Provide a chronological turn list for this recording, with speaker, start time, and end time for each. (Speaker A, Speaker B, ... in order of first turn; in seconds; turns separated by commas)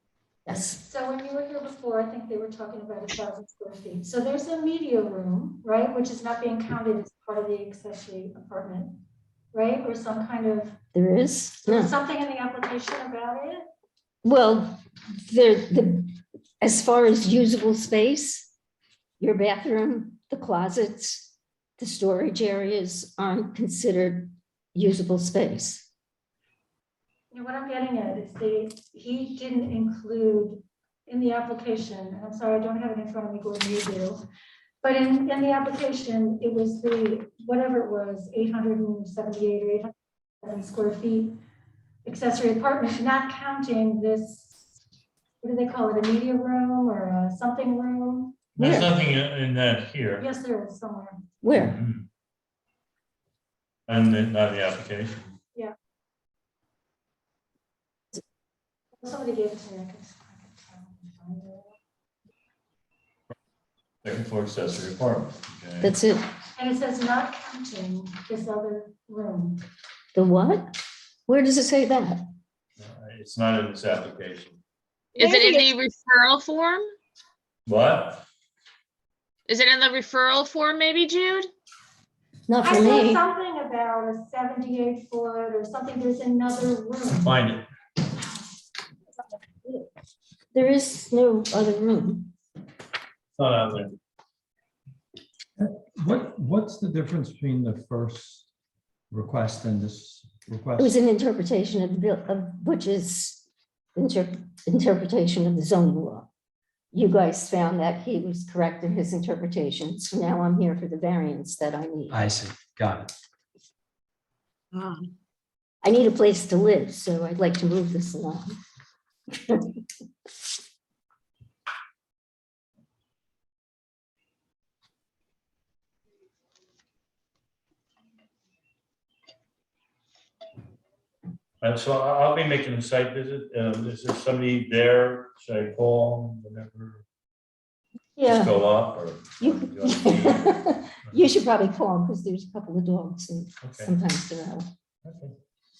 Speaker A: 0.5-0.8, Speaker B: 0.6-9.0, Speaker B: 9.5-10.8, Speaker A: 10.9-11.9, Speaker B: 11.6-13.6, Speaker A: 14.2-18.5, Speaker A: 19.2-25.9, Speaker B: 27.3-34.2, Speaker B: 34.8-39.9, Speaker B: 40.4-41.4, Speaker B: 42.0-44.5, Speaker B: 45.4-48.4, Speaker A: 48.6-48.9, Speaker C: 48.6-50.3, Speaker B: 50.2-51.2, Speaker A: 51.4-51.8, Speaker C: 51.5-52.0, Speaker C: 53.9-55.4, Speaker B: 59.0-61.7, Speaker C: 64.0-65.9, Speaker A: 65.8-66.3, Speaker B: 66.6-69.6, Speaker A: 70.1-70.8, Speaker A: 71.3-72.2, Speaker C: 72.8-74.6, Speaker D: 75.2-76.9, Speaker B: 75.3-75.7, Speaker C: 77.7-78.2, Speaker D: 79.5-81.5, Speaker A: 82.5-83.2, Speaker B: 82.6-87.4, Speaker C: 87.1-87.6, Speaker A: 90.5-92.3, Speaker C: 93.4-94.0, Speaker E: 95.6-98.5, Speaker E: 99.1-100.9, Speaker A: 100.8-103.4, Speaker A: 104.0-106.3, Speaker A: 106.9-112.2, Speaker E: 112.1-113.1, Speaker D: 114.7-115.1, Speaker A: 115.8-118.6, Speaker C: 131.6-137.0, Speaker A: 138.2-138.7, Speaker C: 138.2-141.3, Speaker A: 139.4-144.7, Speaker C: 143.6-143.9, Speaker C: 145.0-145.3